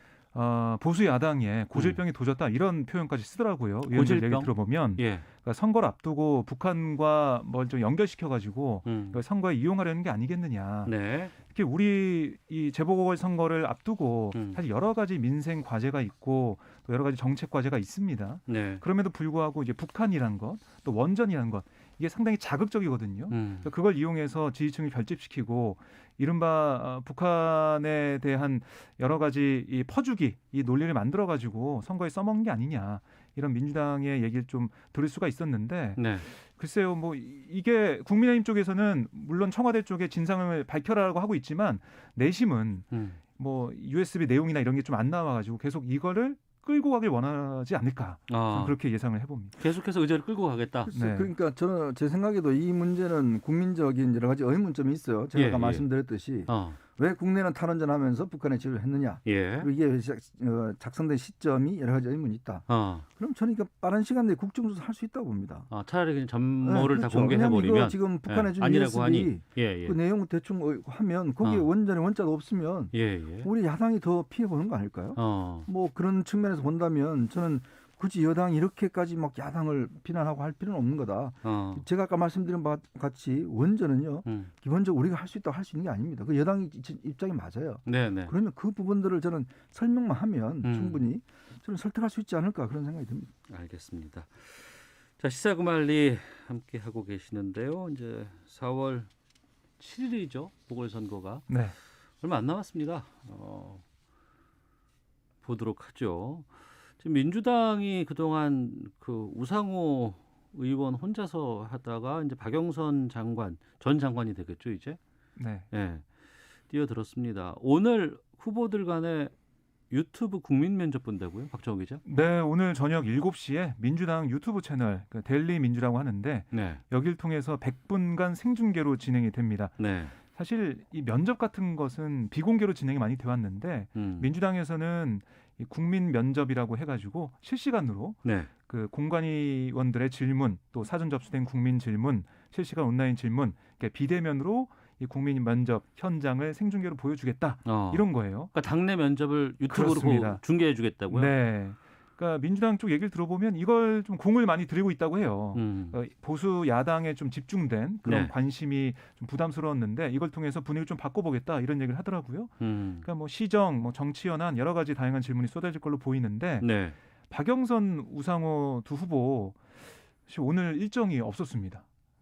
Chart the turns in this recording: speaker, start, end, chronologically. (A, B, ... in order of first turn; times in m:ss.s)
0:00.3-0:49.6 A
0:01.7-0:02.0 B
0:03.9-0:05.3 B
0:08.8-0:09.2 B
0:10.8-0:11.3 B
0:14.3-0:14.6 B
0:18.5-0:18.8 B
0:23.3-0:23.7 B
0:36.0-0:36.3 B
0:42.9-0:43.2 B
0:48.3-0:48.8 B
0:49.6-0:50.9 B
0:50.8-1:02.7 C
0:50.9-0:51.3 A
0:55.3-0:55.8 B
0:56.5-0:56.8 B
0:59.2-0:59.7 B
1:02.7-1:03.1 B
1:03.2-1:05.7 C
1:05.7-1:10.0 B
1:06.6-1:33.3 C
1:11.4-1:11.7 B
1:12.9-1:13.5 B
1:15.2-1:15.7 B
1:21.4-1:21.8 B
1:24.2-1:24.5 B
1:27.8-1:28.3 B
1:30.6-1:31.0 B
1:33.5-1:39.1 B
1:39.8-1:41.5 B
1:41.5-1:41.8 A
1:42.2-1:43.8 B
1:45.4-1:55.0 B
1:55.4-1:55.7 A
1:55.7-1:56.0 B
1:56.7-1:59.3 B
1:59.9-2:02.0 B
2:02.0-2:28.5 A
2:06.5-2:06.8 B
2:09.8-2:10.2 B
2:14.0-2:14.4 B
2:18.2-2:18.5 B
2:27.6-2:31.3 B
2:29.7-2:30.4 A
2:31.1-2:46.7 A
2:35.5-2:36.0 B
2:38.0-2:38.3 B
2:42.6-2:43.1 B
2:46.6-2:47.0 B
2:47.3-2:49.6 A
2:50.3-2:51.8 A